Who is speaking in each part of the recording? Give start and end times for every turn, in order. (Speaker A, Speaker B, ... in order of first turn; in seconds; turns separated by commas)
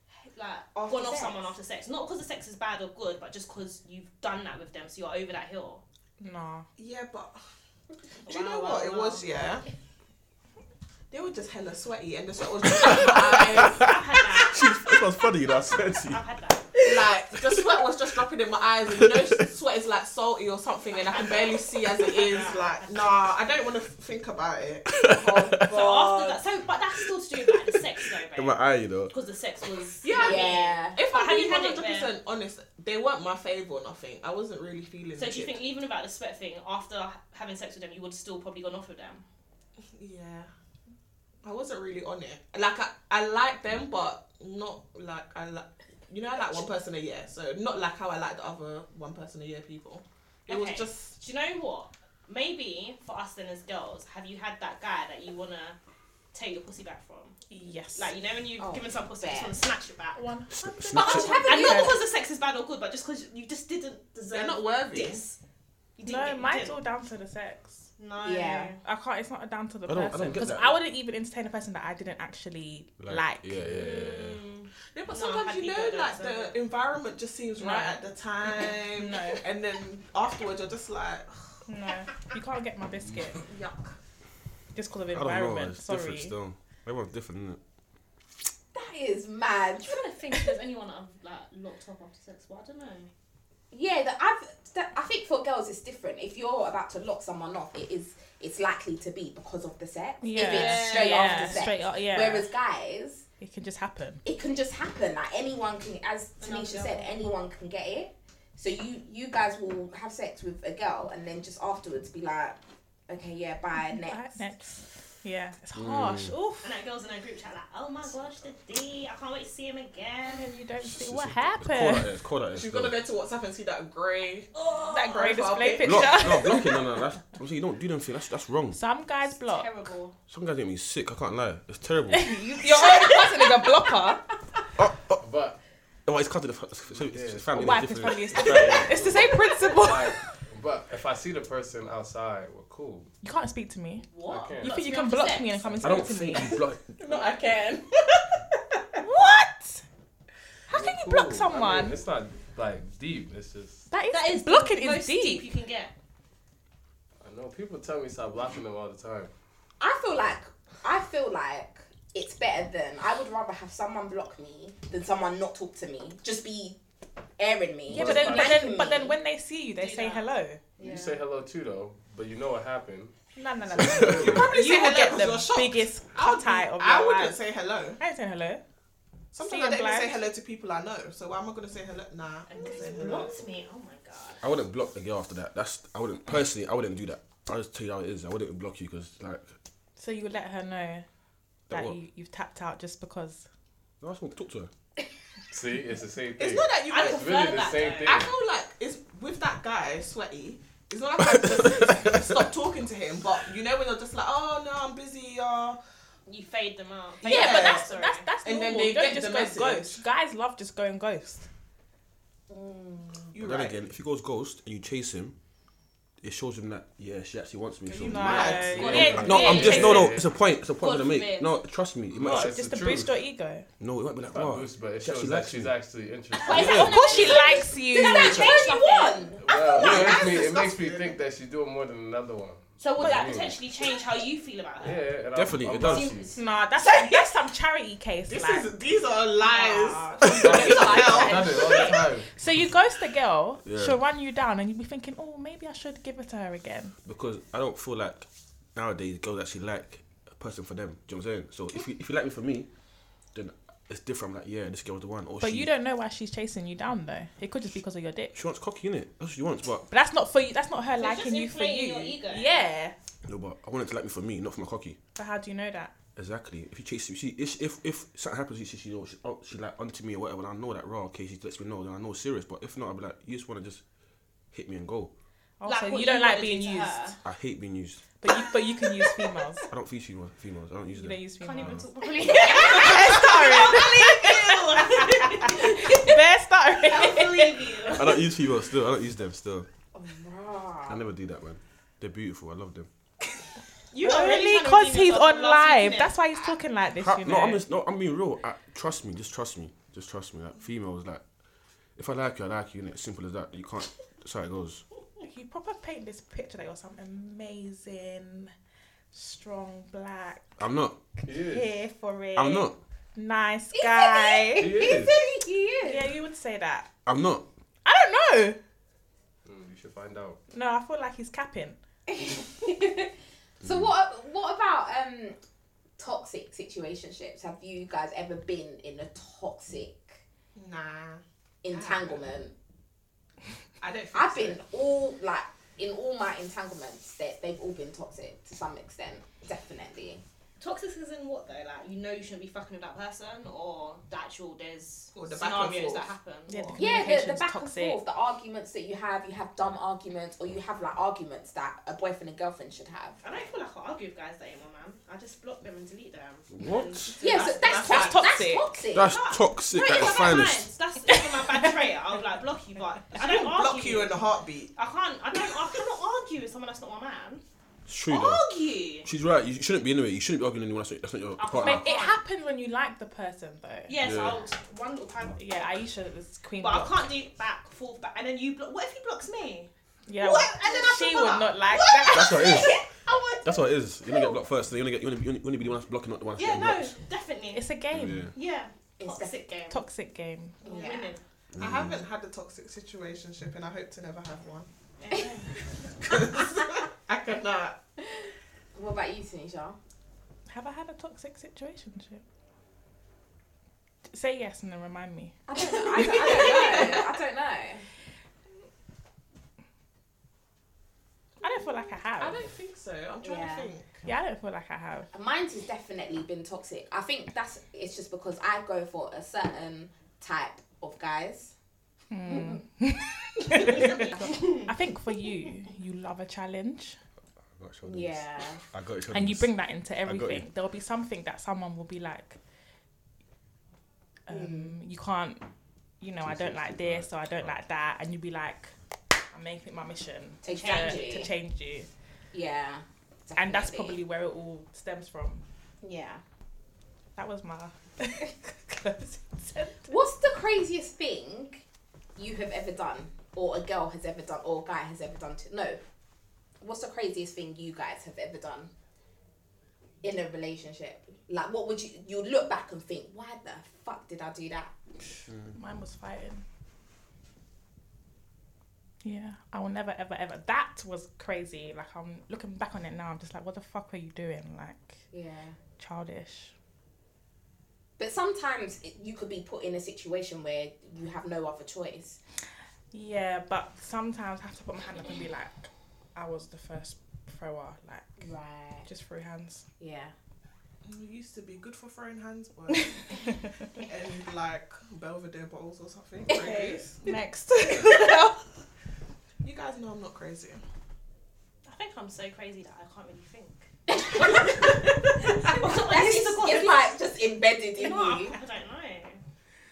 Speaker A: 0.2-5.8, Speaker B: 0.8-1.4, Speaker C: 6.2-6.7, Speaker D: 6.8-7.4, Speaker A: 8.2-9.4, Speaker D: 8.3-9.7, Speaker D: 11.1-14.5, Speaker E: 12.7-16.2, Speaker A: 13.7-14.7, Speaker A: 15.7-16.9, Speaker D: 16.8-25.0, Speaker E: 18.9-19.5, Speaker A: 20.9-23.3, Speaker E: 24.9-25.8, Speaker B: 25.1-26.4, Speaker A: 25.7-32.1, Speaker E: 28.4-29.1, Speaker D: 30.0-35.6, Speaker B: 30.1-31.0, Speaker A: 35.2-39.2, Speaker D: 39.9-40.5, Speaker D: 41.4-51.2, Speaker A: 50.5-55.8, Speaker A: 56.3-60.2, Speaker C: 57.5-58.1, Speaker B: 58.6-59.5, Speaker C: 60.2-62.0, Speaker E: 60.5-61.4, Speaker B: 60.9-62.0, Speaker A: 61.1-65.4, Speaker D: 64.3-65.2, Speaker A: 66.0-66.8, Speaker C: 66.0-67.9, Speaker A: 68.0-68.8, Speaker B: 68.2-68.8, Speaker C: 68.8-73.6, Speaker E: 69.9-70.8, Speaker E: 73.0-74.4, Speaker A: 73.7-76.5, Speaker D: 74.9-81.3, Speaker C: 77.6-78.0, Speaker C: 78.9-79.5, Speaker C: 81.7-83.4, Speaker D: 83.4-84.0, Speaker C: 84.7-86.3, Speaker E: 85.1-87.6, Speaker B: 88.7-90.1, Speaker A: 89.8-93.1, Speaker B: 93.7-103.2, Speaker C: 100.2-102.5, Speaker A: 100.3-101.7, Speaker C: 103.4-104.2, Speaker B: 104.2-114.3, Speaker A: 106.4-107.3, Speaker C: 113.8-116.7, Speaker E: 115.8-116.3, Speaker A: 116.6-120.5, Speaker C: 120.3-122.1, Speaker E: 120.8-123.0, Speaker D: 122.5-126.2, Speaker A: 124.5-125.2, Speaker C: 124.9-126.8, Speaker E: 125.8-128.8, Speaker C: 128.7-129.7, Speaker A: 129.5-130.2, Speaker E: 130.3-132.4, Speaker C: 132.1-134.2, Speaker B: 133.0-133.3, Speaker E: 134.8-135.2, Speaker F: 135.2-135.6, Speaker E: 136.1-139.0, Speaker F: 136.9-143.1, Speaker C: 137.6-140.2, Speaker C: 143.2-146.6, Speaker A: 144.1-145.7, Speaker F: 144.2-144.8, Speaker F: 145.7-146.1, Speaker E: 145.8-147.0, Speaker D: 147.0-149.0, Speaker C: 149.0-149.8, Speaker C: 150.7-152.0, Speaker F: 150.7-153.9, Speaker C: 153.9-155.5, Speaker A: 154.1-155.9, Speaker F: 157.2-159.3, Speaker B: 159.8-166.8, Speaker B: 167.4-169.2, Speaker C: 167.9-170.6, Speaker F: 167.9-168.6, Speaker A: 169.8-170.3, Speaker B: 170.8-171.2, Speaker F: 170.8-173.2, Speaker C: 173.3-177.4, Speaker F: 173.8-174.6, Speaker D: 174.1-178.0, Speaker C: 178.0-178.6, Speaker D: 179.3-183.4, Speaker C: 179.4-180.2, Speaker A: 182.5-184.4, Speaker E: 184.4-189.6, Speaker C: 190.0-191.1, Speaker E: 191.7-192.0, Speaker C: 191.7-193.5, Speaker E: 194.0-194.7, Speaker F: 195.5-198.4, Speaker D: 196.4-205.8, Speaker A: 196.9-198.3, Speaker E: 201.4-202.3, Speaker A: 206.3-208.3, Speaker D: 207.2-207.9, Speaker C: 207.2-211.5, Speaker D: 208.4-210.0, Speaker B: 212.5-213.3, Speaker D: 213.3-213.8, Speaker E: 213.3-215.4, Speaker E: 216.2-222.6, Speaker D: 217.9-219.8, Speaker C: 217.9-220.0, Speaker F: 218.3-220.3, Speaker A: 219.1-220.2, Speaker A: 220.8-221.6, Speaker F: 222.1-223.2, Speaker C: 222.2-223.7, Speaker E: 223.8-225.7, Speaker F: 224.3-227.3, Speaker B: 226.4-229.6, Speaker A: 226.4-229.3, Speaker E: 226.5-227.0, Speaker C: 226.5-228.6, Speaker F: 229.4-233.6, Speaker D: 229.7-231.2, Speaker E: 229.8-230.2, Speaker A: 232.8-235.0, Speaker C: 233.0-233.3, Speaker F: 234.8-236.4, Speaker E: 235.3-236.1, Speaker A: 235.8-236.4, Speaker C: 236.3-238.7, Speaker D: 236.8-237.3, Speaker D: 238.3-241.9, Speaker A: 239.7-241.6, Speaker F: 240.2-242.3, Speaker B: 240.7-241.8, Speaker C: 242.3-246.9, Speaker E: 243.7-244.0, Speaker E: 247.0-252.7, Speaker E: 253.3-255.7, Speaker C: 255.4-258.4, Speaker E: 258.3-259.9, Speaker C: 259.9-262.9, Speaker A: 261.0-262.5, Speaker E: 263.2-265.0, Speaker C: 265.2-265.9, Speaker E: 266.2-273.8, Speaker E: 274.5-275.1, Speaker C: 275.6-277.1, Speaker A: 275.6-277.2, Speaker E: 277.2-278.1, Speaker C: 278.2-279.7, Speaker E: 279.7-281.9, Speaker C: 280.9-288.0, Speaker A: 281.4-286.1, Speaker B: 282.3-283.0, Speaker D: 282.7-284.9, Speaker A: 286.8-288.2, Speaker E: 287.9-289.7, Speaker B: 289.9-291.0, Speaker E: 290.9-292.9, Speaker A: 293.9-296.1, Speaker C: 294.0-297.6, Speaker E: 297.0-301.2, Speaker E: 302.0-304.8, Speaker C: 305.2-308.5, Speaker C: 309.1-310.5, Speaker E: 310.6-311.0, Speaker C: 311.2-314.9, Speaker F: 311.2-311.7, Speaker E: 312.4-312.8, Speaker B: 313.8-316.1, Speaker F: 314.5-315.3, Speaker C: 315.8-316.9, Speaker E: 317.1-317.5, Speaker C: 317.9-318.6, Speaker F: 319.4-320.4, Speaker C: 320.5-321.8, Speaker B: 322.1-325.4, Speaker E: 323.6-323.9, Speaker B: 326.0-330.2, Speaker D: 330.6-332.2, Speaker B: 331.6-332.5, Speaker D: 333.8-334.6, Speaker B: 334.1-340.2, Speaker A: 340.6-346.8, Speaker D: 345.1-346.1, Speaker C: 346.5-348.0, Speaker B: 346.8-353.2, Speaker A: 353.2-358.1, Speaker E: 356.5-357.1, Speaker D: 357.2-358.2, Speaker B: 357.2-359.1, Speaker C: 357.8-358.7, Speaker E: 358.9-360.7, Speaker A: 358.9-364.2, Speaker C: 361.1-361.9, Speaker D: 363.1-364.7, Speaker A: 364.8-367.4, Speaker E: 367.9-368.4, Speaker A: 368.1-369.1, Speaker E: 369.0-371.9, Speaker A: 371.4-372.2, Speaker C: 371.6-373.9, Speaker A: 373.9-375.8, Speaker E: 374.0-374.4, Speaker C: 375.4-377.0, Speaker A: 376.6-383.2, Speaker C: 380.1-382.5, Speaker E: 382.1-382.8, Speaker B: 382.4-383.4, Speaker E: 383.4-386.9, Speaker A: 386.4-387.7, Speaker C: 387.5-388.3, Speaker E: 387.9-388.3, Speaker A: 388.3-389.8, Speaker B: 389.0-389.4, Speaker C: 389.7-390.6, Speaker B: 390.6-391.1, Speaker A: 390.6-391.2, Speaker E: 391.6-392.0, Speaker D: 391.6-394.7, Speaker A: 395.0-395.8, Speaker D: 395.8-397.8, Speaker B: 398.0-399.8, Speaker C: 400.5-402.2, Speaker C: 404.1-405.4, Speaker B: 405.5-407.9, Speaker D: 405.6-407.2, Speaker C: 411.4-412.4, Speaker D: 412.2-414.0, Speaker B: 413.2-413.7, Speaker C: 414.1-415.1, Speaker B: 415.1-421.5, Speaker C: 422.1-427.0, Speaker B: 422.3-422.6, Speaker B: 423.7-424.6, Speaker A: 423.7-424.2, Speaker E: 427.6-429.5, Speaker B: 427.8-428.6, Speaker C: 429.1-432.4, Speaker E: 430.0-430.5, Speaker C: 434.3-435.4, Speaker B: 434.3-434.7, Speaker C: 436.0-438.7, Speaker E: 436.2-437.5, Speaker C: 439.3-441.9, Speaker B: 440.4-441.3, Speaker A: 440.5-441.3, Speaker B: 442.3-444.0, Speaker C: 443.4-445.4, Speaker B: 445.8-446.2, Speaker C: 447.2-449.9, Speaker B: 449.9-451.6, Speaker B: 452.2-455.8, Speaker B: 456.6-458.7, Speaker B: 460.0-464.8, Speaker E: 465.3-465.6, Speaker C: 465.5-466.4, Speaker C: 469.0-475.0, Speaker B: 475.1-475.6, Speaker C: 475.8-476.5, Speaker B: 478.0-482.2, Speaker C: 482.9-488.3, Speaker B: 488.2-488.9, Speaker C: 488.9-489.7, Speaker B: 489.8-490.1, Speaker D: 490.9-497.0, Speaker C: 493.1-493.7, Speaker B: 496.3-496.7, Speaker C: 496.4-498.4, Speaker D: 499.4-500.6, Speaker A: 501.7-503.7, Speaker B: 503.9-508.4, Speaker A: 505.3-507.0, Speaker A: 507.8-509.2